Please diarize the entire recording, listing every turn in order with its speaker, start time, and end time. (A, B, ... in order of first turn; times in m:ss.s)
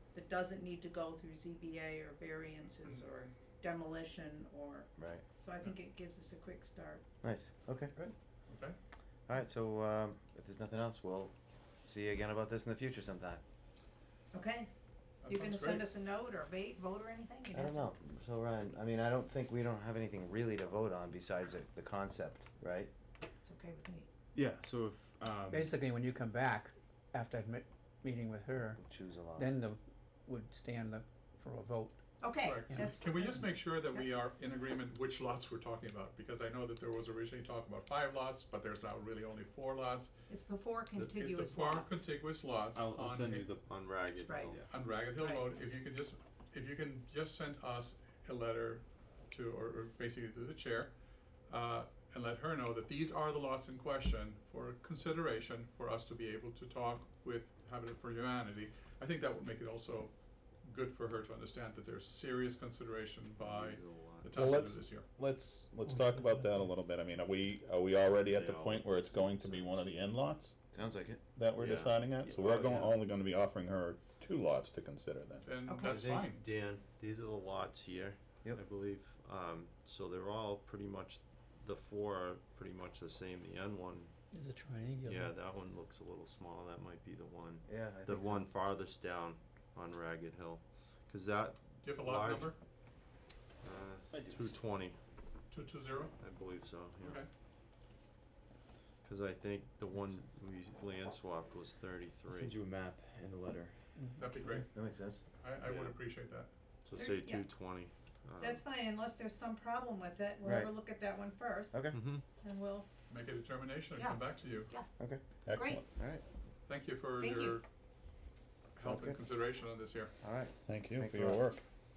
0:00.1-0:07.0 A
0:05.0-0:05.2 B
0:07.2-0:08.1 B
0:08.5-0:08.8 C
0:09.3-0:13.4 B
0:14.3-0:14.7 A
0:15.2-0:15.8 C
0:15.2-0:17.9 A
0:17.5-0:22.9 B
0:23.4-0:24.1 A
0:24.3-0:25.7 D
0:25.5-0:28.8 E
0:28.8-0:29.5 B
0:29.3-0:32.0 E
0:32.2-0:34.1 A
0:32.4-0:40.1 C
0:32.7-0:33.0 E
0:40.3-0:42.1 A
0:41.0-0:43.4 C
0:42.7-0:43.7 D
0:43.6-0:44.6 F
0:44.2-0:44.6 A
0:44.7-0:50.9 C
0:45.2-0:45.5 A
0:51.5-1:05.1 C
1:03.4-1:04.6 F
1:04.3-1:04.9 E
1:05.0-1:10.6 G
1:05.9-1:06.7 E
1:08.2-1:09.9 F
1:10.7-1:11.2 B
1:11.3-1:15.5 G
1:11.5-1:12.9 F
1:15.4-1:16.5 C
1:15.7-1:16.0 A
1:15.8-1:24.1 F
1:24.3-1:25.3 E
1:25.0-1:32.6 F
1:27.6-1:28.5 B
1:31.8-1:32.6 C
1:33.6-1:35.0 F
1:34.1-1:34.5 D
1:35.5-1:36.1 C
1:36.2-1:37.2 F
1:37.0-1:37.3 C
1:39.0-1:42.6 F
1:42.3-1:43.8 D
1:44.0-1:44.6 E
1:44.2-1:44.7 C
1:44.7-1:45.2 B
1:45.3-1:46.5 C
1:45.6-1:46.0 F
1:46.8-1:48.6 F
1:47.0-1:47.5 A
1:48.4-1:51.8 A
1:50.4-1:50.7 B
1:51.7-1:52.0 B
1:51.9-1:52.2 F
1:52.3-1:52.9 A
1:53.1-1:54.7 C
1:54.0-1:54.9 A
1:55.0-1:55.2 B
1:55.4-1:55.8 G
1:55.5-1:55.8 A
1:55.9-1:56.2 B
1:56.6-1:57.6 C
1:57.2-1:57.6 A
1:58.8-2:00.1 C
1:58.8-1:59.2 B
2:00.2-2:01.4 B
2:00.6-2:01.6 G